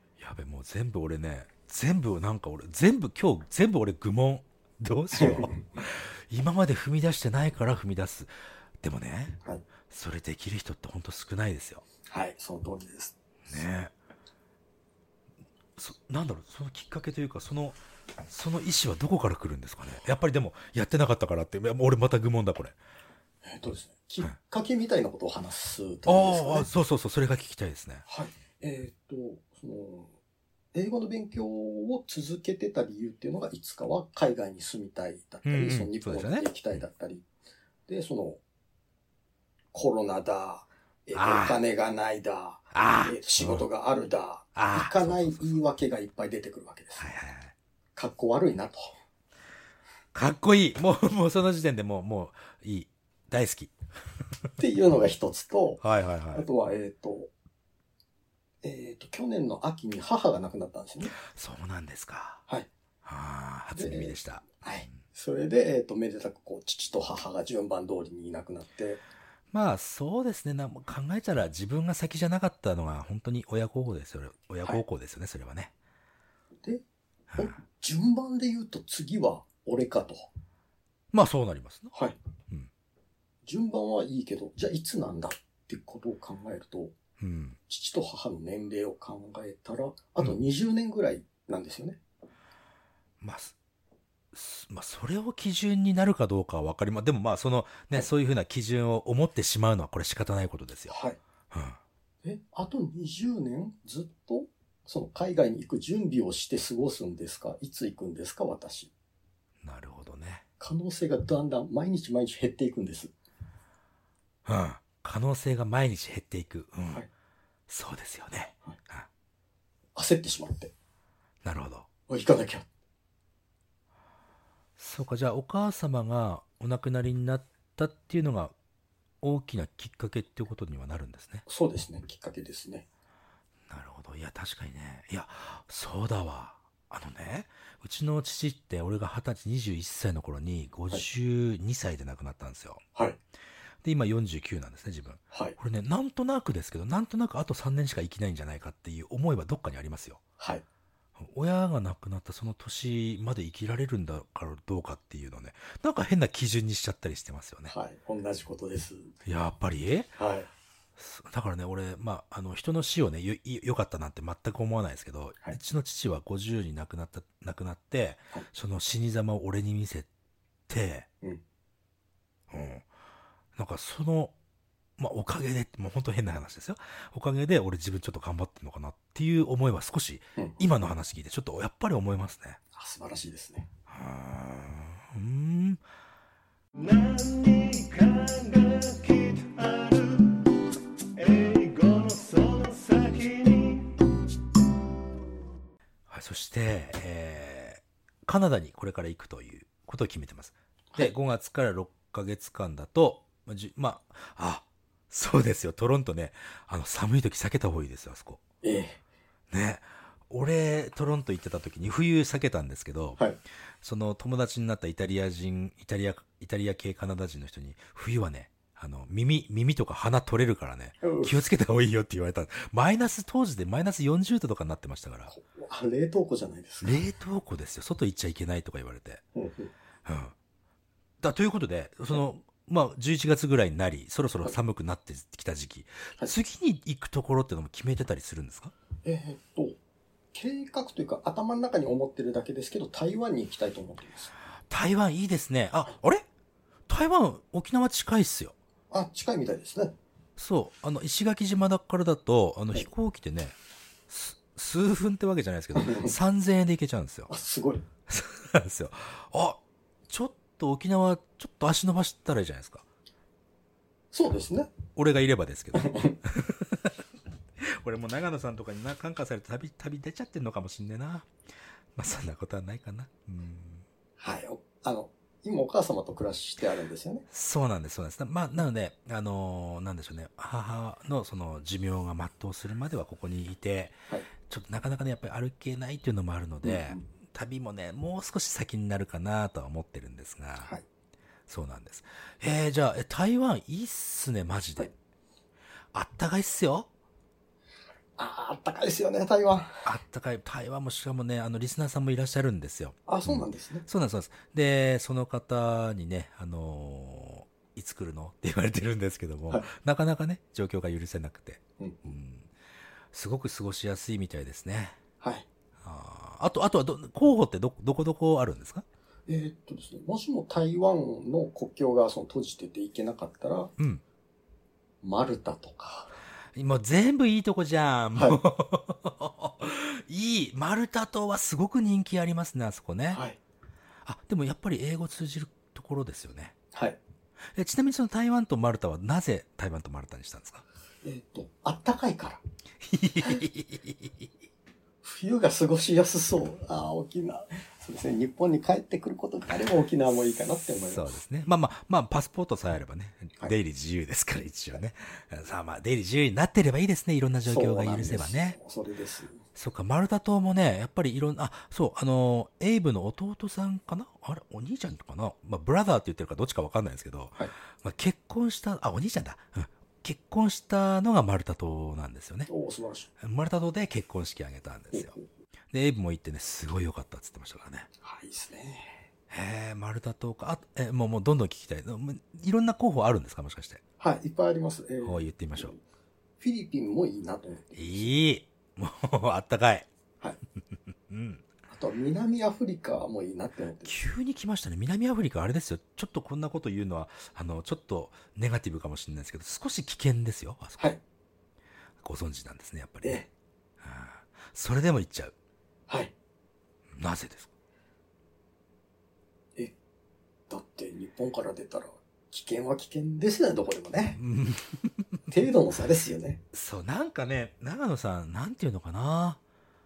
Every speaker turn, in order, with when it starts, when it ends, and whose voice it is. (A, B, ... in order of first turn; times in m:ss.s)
0:00.2-0:11.8 A
0:05.2-0:05.6 B
0:12.1-0:13.2 B
0:13.5-0:13.9 A
0:15.8-0:22.7 A
0:23.4-0:26.7 B
0:26.0-0:28.0 A
0:28.1-0:30.1 B
0:30.7-0:37.2 B
0:35.4-0:36.5 A
0:37.9-0:38.4 B
0:39.7-0:47.1 B
0:41.1-0:41.6 A
0:42.7-0:43.6 A
0:44.5-0:45.5 A
0:47.0-0:47.5 A
0:48.0-0:48.9 B
0:50.1-0:53.7 A
0:54.6-0:57.3 B
0:55.8-0:56.4 A
0:58.6-1:01.1 B
1:01.2-1:02.4 A
1:03.0-1:04.9 A
1:03.7-1:09.0 B
1:09.5-1:15.7 A
1:17.4-1:20.3 B
1:21.1-1:21.9 A
1:23.4-1:26.9 B
1:27.2-1:27.6 A
1:27.7-1:32.0 B
1:33.2-1:33.5 A
1:34.3-1:41.0 A
1:40.9-1:41.2 B
1:41.5-1:41.8 A
1:42.2-1:48.9 B
1:49.6-1:50.4 A
1:50.6-1:53.1 B
1:54.4-1:57.0 A
1:57.7-1:59.1 A
1:59.9-2:00.7 B
2:01.4-2:01.9 A
2:02.1-2:02.6 B
2:04.8-2:08.5 A
2:09.2-2:11.4 A
2:11.5-2:12.8 B
2:13.7-2:22.8 A
2:23.8-2:30.2 A
2:25.3-2:25.6 B
2:30.4-2:30.6 B
2:31.2-2:37.7 A
2:37.7-2:39.1 B
2:39.2-2:40.1 A
2:40.2-2:40.5 B
2:41.0-2:50.1 A
2:50.7-2:51.1 A
2:52.5-2:52.8 A
2:53.6-2:54.3 A
2:55.0-3:02.6 A
3:02.7-3:03.7 B
3:03.9-3:05.8 A
3:06.8-3:10.5 C
3:11.2-3:14.0 C
3:16.1-3:28.4 A
3:28.6-3:29.0 B
3:29.5-3:33.2 A
3:33.8-3:45.3 A
3:41.0-3:41.4 B
3:45.3-3:47.0 B
3:46.8-3:49.2 A
3:49.3-3:49.7 B
3:50.0-3:50.3 A
3:51.2-3:58.7 A
3:59.0-3:59.8 B
4:00.3-4:04.3 B
4:04.7-4:06.2 A
4:06.9-4:08.5 A
4:08.9-4:10.0 B
4:10.4-4:13.6 A
4:14.1-4:17.3 A
4:15.7-4:16.1 B
4:17.3-4:17.8 B
4:18.1-4:22.8 A
4:24.1-4:24.7 B
4:24.9-4:27.0 A
4:25.7-4:26.2 B
4:27.6-4:31.3 A
4:32.0-4:33.8 A
4:34.2-4:37.2 B
4:37.3-4:50.7 A
4:46.6-4:47.0 B
4:51.5-4:54.9 A
4:55.9-4:56.9 A
4:58.2-4:59.8 B
4:59.8-5:12.5 A
5:03.1-5:03.8 B
5:13.1-5:15.0 A
5:15.2-5:15.4 B
5:15.8-5:18.8 A
5:19.3-5:23.7 B
5:23.8-5:24.0 A
5:25.0-5:26.1 B
5:26.5-5:33.2 A
5:33.1-5:33.4 B
5:34.0-5:36.5 A
5:37.5-5:40.6 A
5:41.0-5:42.4 B
5:42.8-5:44.3 A
5:45.0-5:51.1 B
5:50.9-5:58.6 A
5:57.4-5:59.4 B
5:59.5-6:12.5 A
6:12.5-6:13.1 B
6:13.2-6:15.1 A
6:14.9-6:15.2 B
6:15.7-6:17.9 A
6:18.0-6:19.1 B
6:19.3-6:23.8 A
6:24.0-6:25.8 B
6:25.0-6:25.7 A
6:26.4-6:28.1 B
6:27.8-6:29.9 A
6:31.1-6:31.4 A
6:31.7-6:33.9 B
6:33.8-6:41.0 A
6:42.0-6:43.2 A
6:43.0-6:43.3 B
6:43.8-6:45.3 A
6:45.9-6:46.1 B
6:46.9-6:47.5 A
6:50.5-6:54.2 B
6:54.2-6:55.2 A
6:55.3-6:56.4 B
6:56.5-6:59.4 A